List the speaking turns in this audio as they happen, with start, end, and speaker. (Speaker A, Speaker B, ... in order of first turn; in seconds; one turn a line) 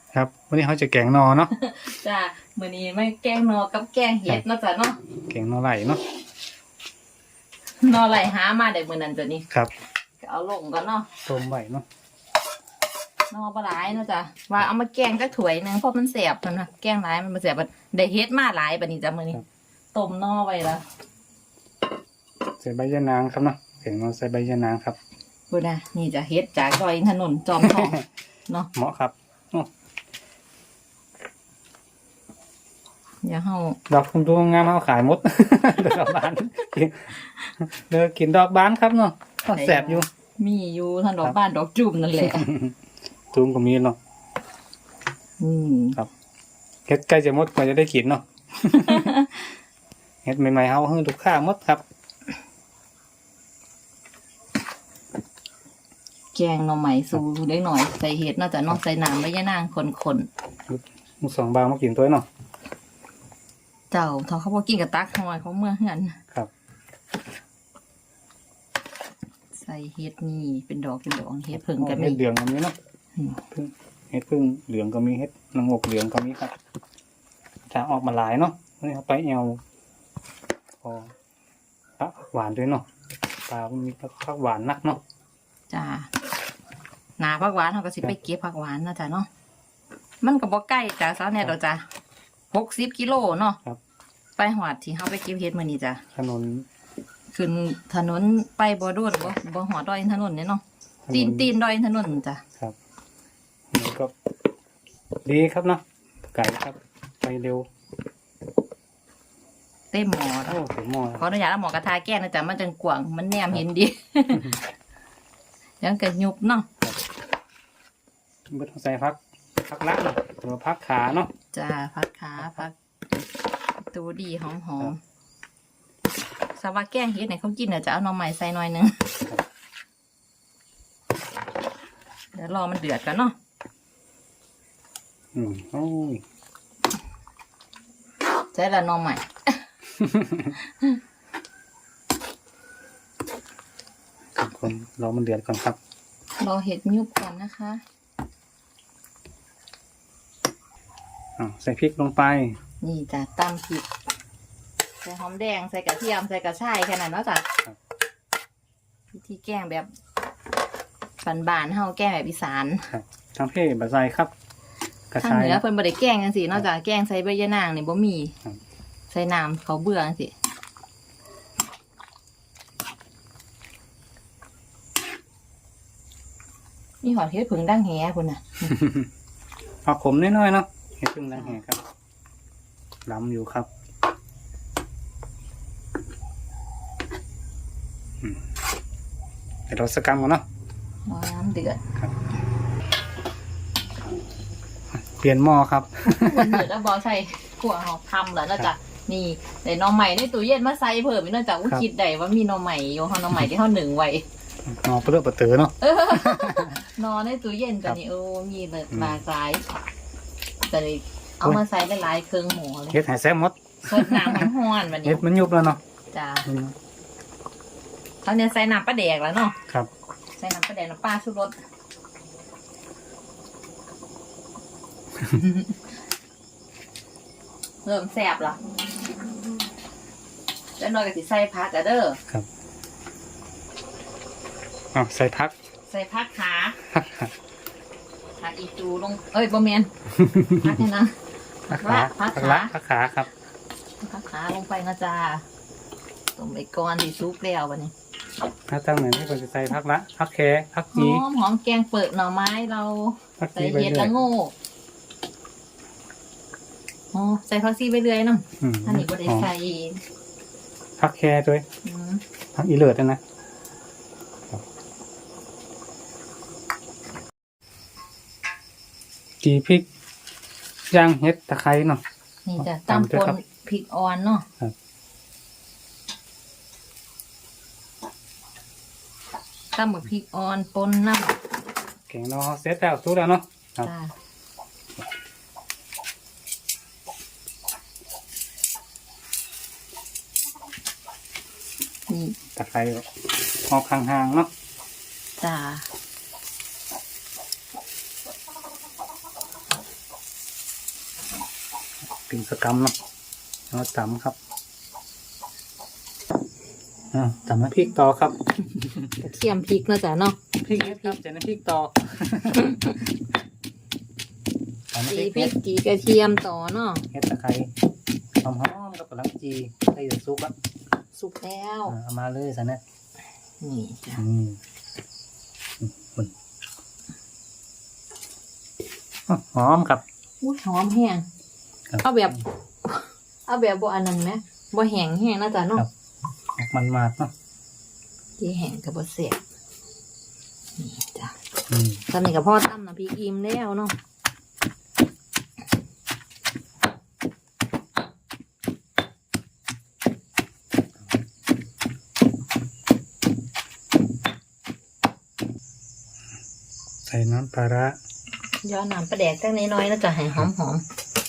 Speaker A: 0.1-1.5
Speaker B: 1.5-5.0
Speaker A: 5.2-6.0
Speaker B: 7.8-9.5
Speaker B: 10.2-11.1
Speaker A: 11.2-11.8
Speaker B: 13.3-20.8
Speaker A: 22.6-25.0
Speaker B: 25.5-28.7
Speaker A: 27.6-27.9
Speaker A: 28.7-29.7
Speaker B: 33.2-33.8
Speaker A: 33.9-40.0
Speaker B: 39.5-42.5
Speaker A: 42.2-42.7
Speaker A: 43.3-44.0
Speaker B: 45.4-46.0
Speaker A: 46.9-49.1
Speaker B: 48.8-49.5
Speaker A: 50.2-51.8
Speaker B: 56.3-60.3
Speaker A: 60.7-62.3
Speaker B: 63.9-66.2
Speaker B: 69.5-72.2
Speaker A: 71.5-72.8
Speaker B: 73.2-73.4
Speaker A: 73.5-76.5
Speaker A: 77.7-79.6
Speaker A: 80.8-81.1
Speaker A: 82.0-82.9
Speaker A: 83.5-85.0
Speaker B: 85.7-86.1
Speaker B: 87.2-89.3
Speaker B: 90.2-91.8
Speaker B: 92.5-93.6
Speaker B: 94.4-96.0
Speaker A: 96.1-96.7
Speaker B: 97.3-102.4
Speaker A: 101.0-101.5
Speaker A: 103.7-104.1
Speaker A: 105.2-107.7
Speaker B: 109.9-110.6
Speaker A: 110.5-111.3
Speaker B: 111.2-114.6
Speaker B: 115.8-116.7
Speaker A: 118.5-121.3
Speaker B: 121.5-122.7
Speaker B: 123.8-125.0
Speaker B: 126.5-129.1
Speaker B: 132.3-133.3
Speaker A: 135.3-136.2
Speaker B: 138.5-139.6
Speaker A: 140.0-140.5
Speaker A: 144.3-145.8
Speaker B: 146.4-147.8
Speaker A: 151.4-152.6
Speaker B: 152.8-153.9
Speaker B: 155.0-157.5
Speaker B: 159.1-159.9
Speaker B: 161.2-162.9
Speaker A: 162.9-164.3
Speaker A: 165.1-165.6
Speaker B: 165.2-168.3
Speaker B: 169.1-170.3
Speaker B: 177.0-178.7
Speaker A: 178.7-179.1
Speaker A: 179.8-181.8
Speaker A: 183.1-183.7
Speaker A: 189.7-190.4
Speaker B: 191.1-191.8
Speaker A: 195.1-196.7
Speaker B: 196.1-204.2
Speaker A: 204.7-206.8
Speaker B: 205.8-209.6
Speaker B: 210.7-213.0
Speaker A: 212.9-214.5
Speaker B: 213.8-215.2
Speaker A: 215.0-215.8
Speaker B: 216.1-216.4
Speaker A: 216.4-216.8
Speaker B: 218.2-219.6
Speaker B: 220.4-221.6
Speaker B: 225.3-225.6
Speaker B: 227.8-228.6
Speaker B: 230.8-232.2
Speaker A: 234.9-235.5
Speaker B: 235.9-236.8
Speaker A: 236.9-237.3
Speaker B: 238.4-239.9
Speaker A: 240.2-240.7
Speaker B: 240.5-241.2
Speaker B: 241.7-242.7
Speaker A: 241.7-243.3
Speaker B: 244.0-245.4
Speaker B: 246.4-247.9
Speaker A: 248.7-251.2
Speaker B: 250.9-254.5
Speaker A: 253.4-254.1
Speaker B: 257.1-260.0
Speaker A: 258.6-259.5
Speaker A: 261.0-261.6
Speaker B: 261.8-262.2
Speaker A: 262.5-263.2
Speaker A: 269.4-269.9
Speaker A: 270.9-272.0
Speaker B: 272.4-274.4
Speaker A: 272.6-273.4
Speaker B: 279.7-281.4
Speaker A: 282.1-283.9
Speaker B: 283.8-284.1
Speaker B: 292.1-292.4
Speaker A: 292.5-293.1
Speaker A: 293.7-294.5
Speaker B: 295.4-295.9
Speaker A: 302.1-302.9
Speaker A: 303.7-304.4
Speaker A: 307.1-309.1
Speaker B: 309.2-311.1
Speaker A: 310.6-312.6
Speaker B: 312.6-312.9
Speaker A: 314.9-315.5
Speaker B: 315.1-317.0
Speaker A: 317.1-317.7
Speaker A: 318.4-320.6
Speaker B: 321.1-321.9
Speaker A: 321.9-322.8
Speaker B: 323.6-324.2
Speaker A: 324.2-324.6
Speaker A: 325.8-326.3
Speaker A: 329.3-330.0
Speaker B: 330.4-331.3
Speaker B: 332.0-335.8
Speaker A: 336.6-337.3
Speaker B: 338.4-339.4
Speaker B: 340.8-341.3
Speaker A: 341.7-342.0
Speaker B: 342.1-343.9
Speaker A: 357.0-358.0
Speaker B: 358.6-360.8